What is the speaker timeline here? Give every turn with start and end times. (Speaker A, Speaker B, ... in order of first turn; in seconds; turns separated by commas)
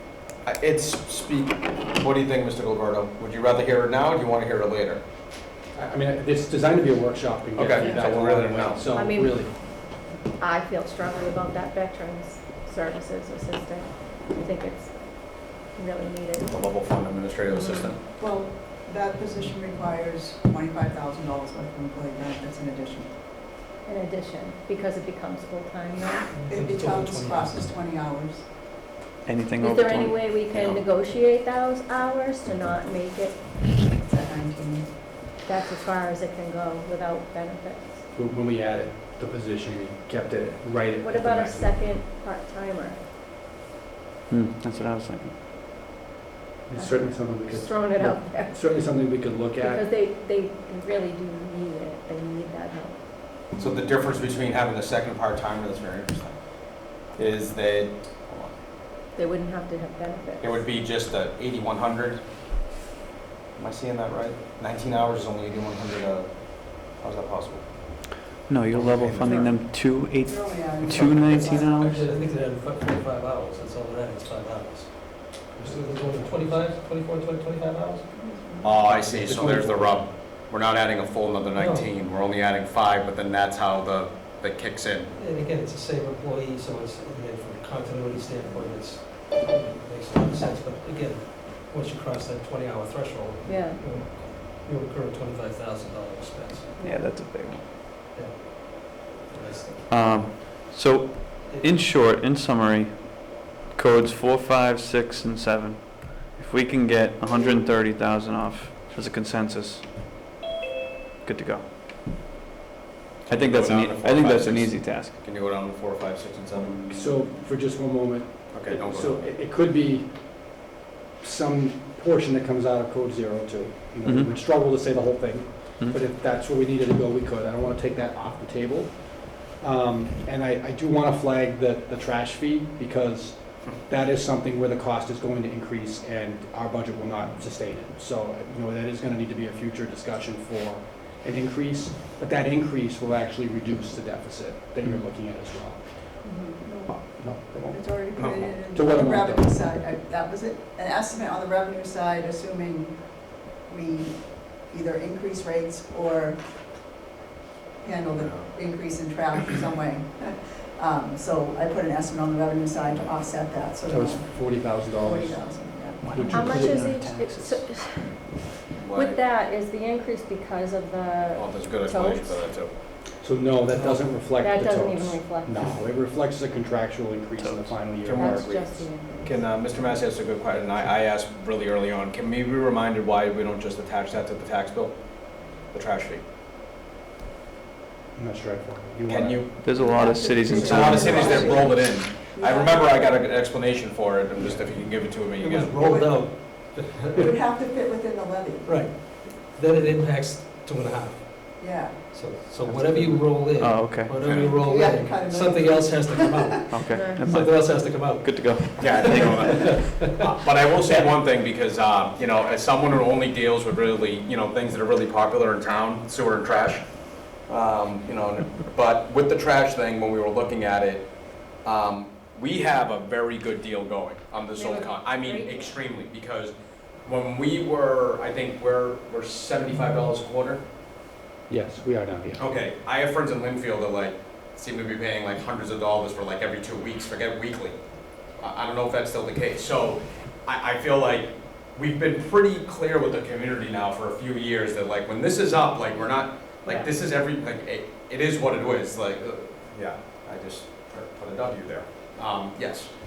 Speaker A: 0.4-5.0, Speaker B: 5.7-9.6, Speaker A: 7.5-8.8, Speaker C: 8.9-9.4, Speaker C: 10.4-16.6, Speaker A: 16.5-18.0, Speaker C: 17.5-18.0, Speaker D: 18.2-23.1, Speaker C: 23.8-26.4, Speaker E: 26.3-27.7, Speaker D: 26.5-28.4, Speaker F: 29.2-30.8, Speaker C: 29.6-33.7, Speaker D: 33.9-34.9, Speaker C: 35.4-38.0, Speaker B: 38.1-41.8, Speaker C: 41.0-43.0, Speaker F: 44.3-45.3, Speaker B: 46.7-49.8, Speaker C: 46.8-48.6, Speaker C: 49.6-53.0, Speaker A: 53.5-58.5, Speaker C: 59.1-60.6, Speaker A: 60.4-62.2, Speaker A: 63.5-68.0, Speaker F: 68.5-72.0, Speaker A: 68.7-69.6, Speaker D: 70.2-72.1, Speaker E: 71.5-78.1, Speaker B: 75.6-76.6, Speaker D: 78.1-78.7, Speaker A: 78.6-85.1, Speaker B: 78.8-80.0, Speaker E: 81.5-81.9, Speaker E: 85.1-96.8, Speaker C: 93.4-93.8, Speaker C: 96.8-97.2, Speaker F: 96.8-97.6, Speaker E: 98.1-100.3, Speaker F: 99.9-109.9, Speaker E: 101.4-101.9, Speaker F: 111.2-111.6, Speaker A: 113.2-117.2, Speaker F: 113.3-115.2, Speaker B: 116.9-120.6, Speaker A: 118.5-119.2, Speaker B: 121.2-146.3, Speaker F: 124.0-124.3, Speaker D: 146.2-156.4, Speaker B: 146.9-149.7, Speaker A: 148.2-148.6, Speaker D: 157.8-166.3, Speaker A: 158.2-158.5, Speaker F: 163.9-164.2, Speaker B: 164.1-166.6, Speaker F: 166.0-167.7, Speaker C: 166.3-172.5, Speaker A: 168.7-169.2, Speaker A: 171.3-172.7, Speaker B: 173.2-178.4, Speaker E: 173.7-174.2, Speaker C: 174.4-175.8, Speaker F: 177.4-177.7, Speaker A: 178.0-186.2, Speaker C: 178.1-179.7, Speaker B: 188.1-189.5, Speaker A: 189.1-189.5, Speaker F: 189.6-191.6, Speaker D: 189.7-193.1, Speaker A: 190.5-195.7, Speaker E: 190.8-191.3, Speaker E: 195.4-197.3, Speaker D: 195.8-196.3, Speaker D: 197.1-198.8, Speaker E: 198.6-210.1, Speaker D: 201.6-202.1, Speaker B: 202.6-203.3, Speaker F: 203.6-204.2, Speaker A: 204.2-204.5, Speaker D: 204.5-206.8, Speaker F: 206.7-209.4, Speaker C: 206.9-207.3, Speaker A: 208.8-226.5, Speaker C: 224.5-225.9, Speaker A: 227.0-230.6, Speaker B: 231.5-232.4, Speaker A: 232.4-237.8, Speaker A: 238.3-252.9, Speaker C: 246.6-246.9